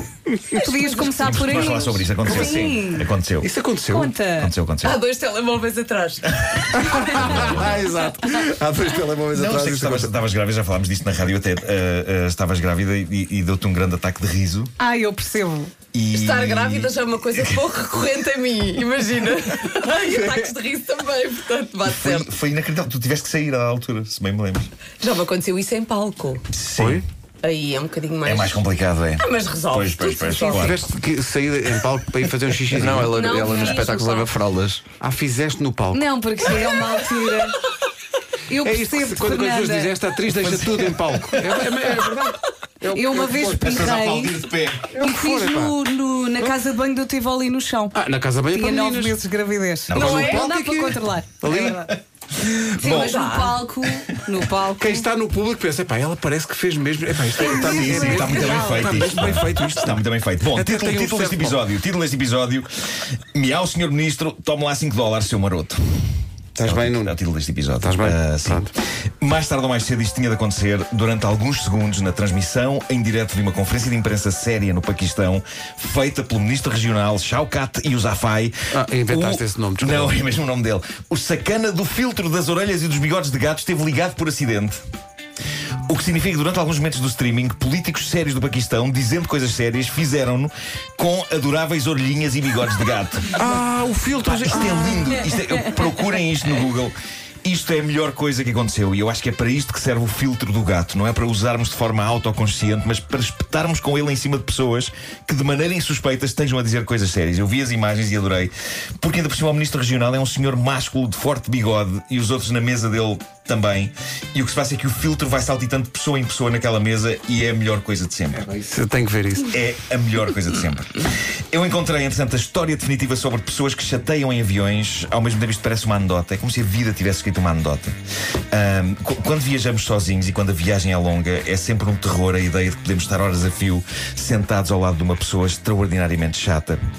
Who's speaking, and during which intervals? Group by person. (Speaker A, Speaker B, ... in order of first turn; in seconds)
Speaker A: 0.3-0.6, 3.4-4.1, 6.7-10.1, 26.8-27.0, 30.5-33.3, 35.0-36.1, 38.6-43.9, 44.9-45.8, 47.9-49.2, 49.9-51.9, 54.8-60.0, 60.5-61.6, 66.5-67.1, 67.8-68.7, 78.7-80.2, 93.3-95.2, 118.3-119.5
Speaker B: 0.6-3.1, 3.9-4.5, 14.8-15.7, 35.9-37.6, 38.5-40.0, 42.9-44.5, 45.0-51.9, 52.8-55.1, 57.4-59.0
Speaker C: 0.6-1.7, 4.8-7.4, 16.1-22.3, 25.0-26.4, 27.4-28.6, 29.2-30.8, 33.0-34.4, 49.9-50.5, 52.9-53.9
Speaker D: 1.0-3.5, 4.4-5.0, 6.4-7.8, 9.3-14.7, 15.9-17.6, 21.9-24.7, 26.5-27.0, 28.2-30.8, 40.4-42.1, 43.5-45.0, 49.9-50.4, 51.8-53.3, 57.6-62.7, 63.3-66.0, 66.6-84.8, 85.9-93.4, 94.3-118.5, 119.4-128.0, 128.5-136.8
Speaker E: 32.7-34.8